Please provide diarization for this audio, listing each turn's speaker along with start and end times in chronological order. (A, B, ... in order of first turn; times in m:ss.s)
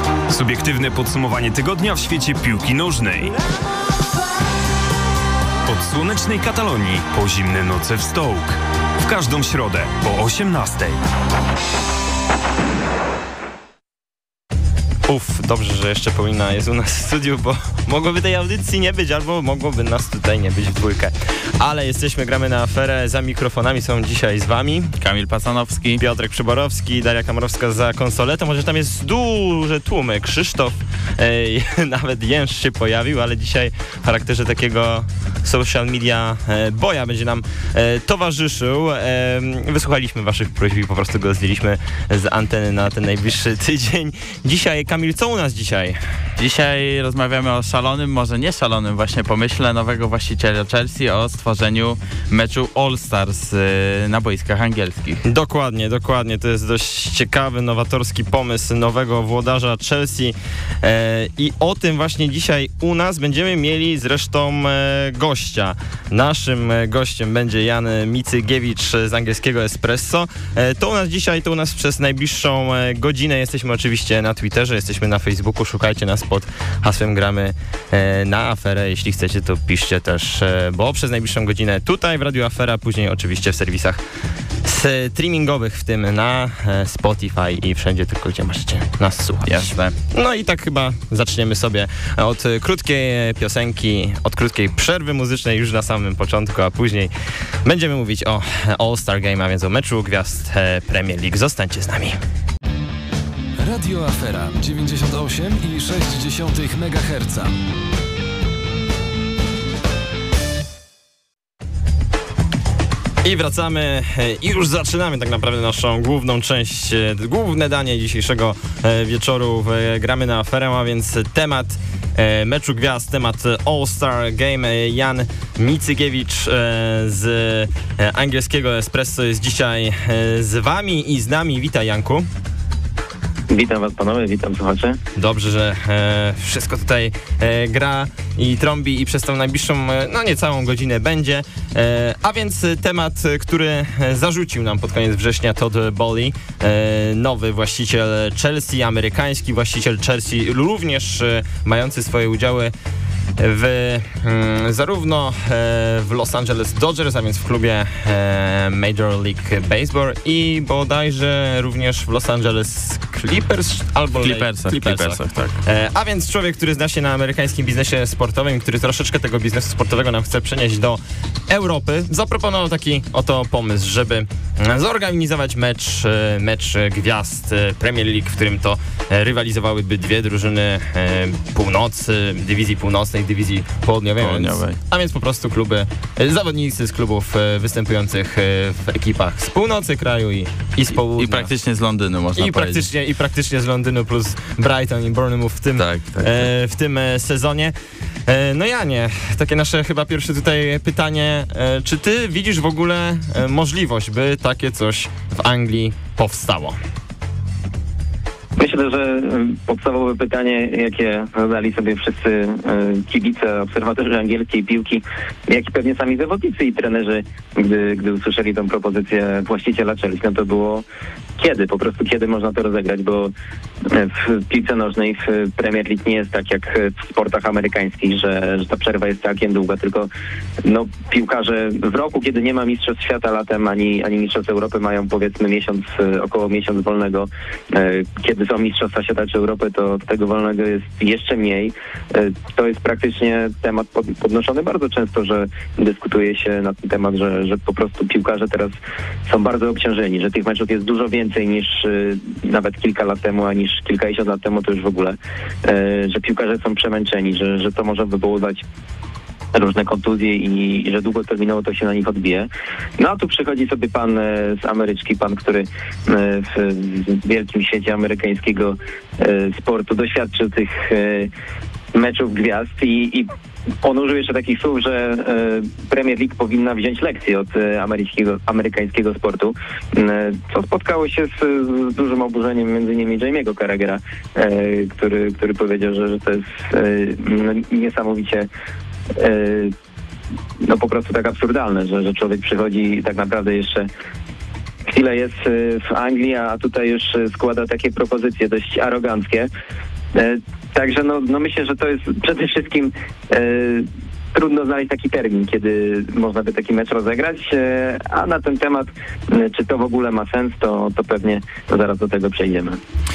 0:00.3-0:03.3 A
0:05.7-0:11.0 A
0:15.1-0:24.9 B
0:25.0-0:26.0 C
0:26.0-0:46.0 B
0:46.4-0:55.2 C
0:55.2-1:24.0 B
1:24.6-1:37.1 B
1:29.4-1:29.9 C
1:37.6-1:42.2 B
1:43.6-1:47.6 D
1:53.2-2:12.3 B
2:13.5-2:15.0 E
2:15.2-2:32.7 B
2:33.4-3:11.5 B
2:44.2-2:45.6 C
3:04.2-3:04.8 C
3:11.1-3:12.9 C
3:12.4-3:17.7 B
3:15.8-3:16.5 C
3:18.3-3:26.8 B
3:28.6-3:40.8 E
3:41.4-3:43.3 E
3:43.9-3:50.1 E
3:50.6-4:08.7 E
4:09.2-4:18.6 E
4:19.5-4:31.3 E
4:31.9-4:33.3 E
4:33.8-4:48.5 E
4:49.1-4:49.7 E
4:50.6-4:53.9 E
4:54.9-4:59.5 E
5:00.1-5:12.8 E